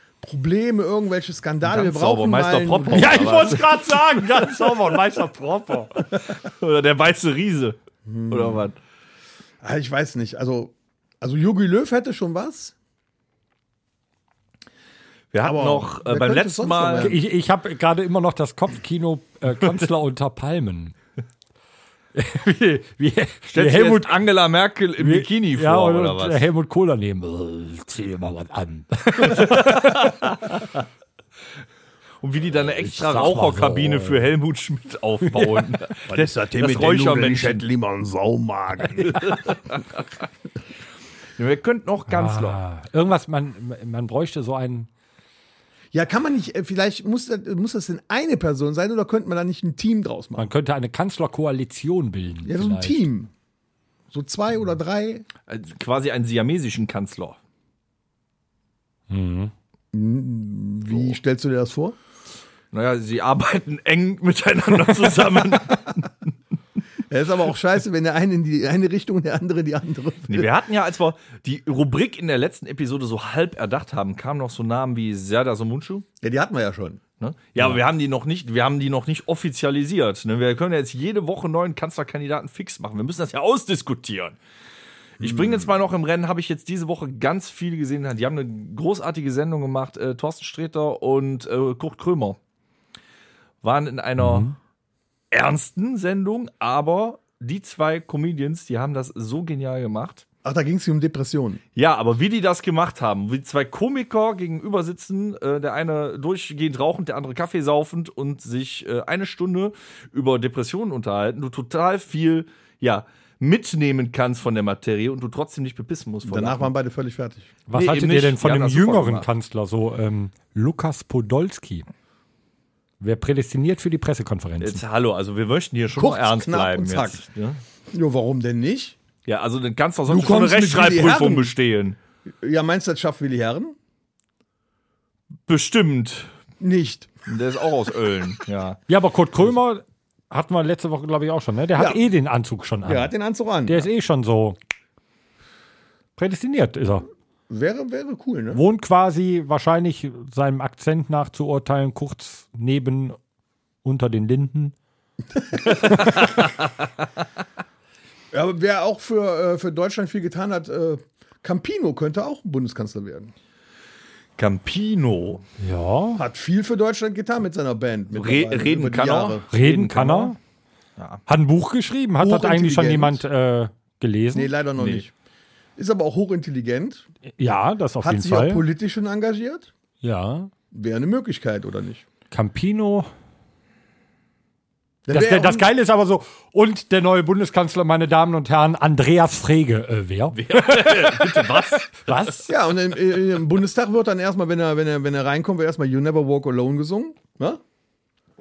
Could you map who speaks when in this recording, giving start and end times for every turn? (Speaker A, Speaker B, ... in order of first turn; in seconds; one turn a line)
Speaker A: 0.2-3.6
Speaker B: 1.6-3.8
Speaker C: 2.9-6.0
Speaker B: 6.3-7.8
Speaker A: 8.1-8.6
Speaker B: 8.3-8.8
Speaker A: 9.6-12.7
Speaker B: 15.3-17.1
Speaker A: 15.4-17.2
Speaker C: 17.0-20.9
Speaker C: 22.1-24.2
Speaker B: 23.5-26.4
Speaker C: 25.0-30.1
Speaker B: 29.2-30.4
Speaker B: 32.2-37.6
Speaker C: 32.8-34.3
Speaker C: 35.3-35.6
Speaker A: 36.1-39.4
Speaker B: 39.0-39.8
Speaker B: 41.4-42.6
Speaker C: 42.1-44.9
Speaker A: 45.9-50.5
Speaker C: 50.4-53.0
Speaker A: 52.4-53.3
Speaker A: 54.1-55.2
Speaker B: 55.5-57.4
Speaker C: 59.1-59.5
Speaker A: 59.9-62.0
Speaker B: 62.7-66.1
Speaker A: 67.1-70.5
Speaker B: 70.3-76.0
Speaker A: 76.2-77.0
Speaker B: 77.2-84.4
Speaker A: 85.2-85.7
Speaker B: 85.2-92.4
Speaker B: 93.6-94.5
Speaker C: 94.2-94.5
Speaker B: 95.3-100.2
Speaker A: 100.4-101.6
Speaker B: 101.7-116.7
Speaker A: 116.2-117.5
Speaker C: 117.7-121.8
Speaker B: 117.7-119.3
Speaker C: 123.0-124.8
Speaker B: 124.6-127.6
Speaker A: 125.9-127.2
Speaker A: 127.9-129.0
Speaker B: 129.2-132.0
Speaker A: 130.1-131.5
Speaker A: 132.4-133.8
Speaker B: 135.5-136.3
Speaker A: 136.6-137.1
Speaker B: 137.3-138.8
Speaker C: 138.9-143.1
Speaker A: 141.7-142.0
Speaker A: 142.8-143.9
Speaker C: 143.7-144.6
Speaker C: 146.2-147.1
Speaker A: 147.5-148.6
Speaker C: 148.5-153.2
Speaker C: 153.8-154.7
Speaker C: 155.7-156.2
Speaker A: 158.3-163.3
Speaker B: 164.4-165.4
Speaker C: 165.6-166.2
Speaker A: 166.2-169.4
Speaker B: 168.1-170.3
Speaker C: 169.5-170.4
Speaker C: 171.3-174.5
Speaker A: 172.2-173.2
Speaker A: 174.3-175.1
Speaker B: 174.8-175.0
Speaker A: 175.8-177.1
Speaker C: 177.4-178.6
Speaker A: 178.0-179.7
Speaker C: 180.0-180.5
Speaker A: 180.7-182.0
Speaker C: 182.3-183.1
Speaker A: 185.0-185.7
Speaker C: 185.1-192.5
Speaker B: 190.3-192.4
Speaker A: 192.5-197.6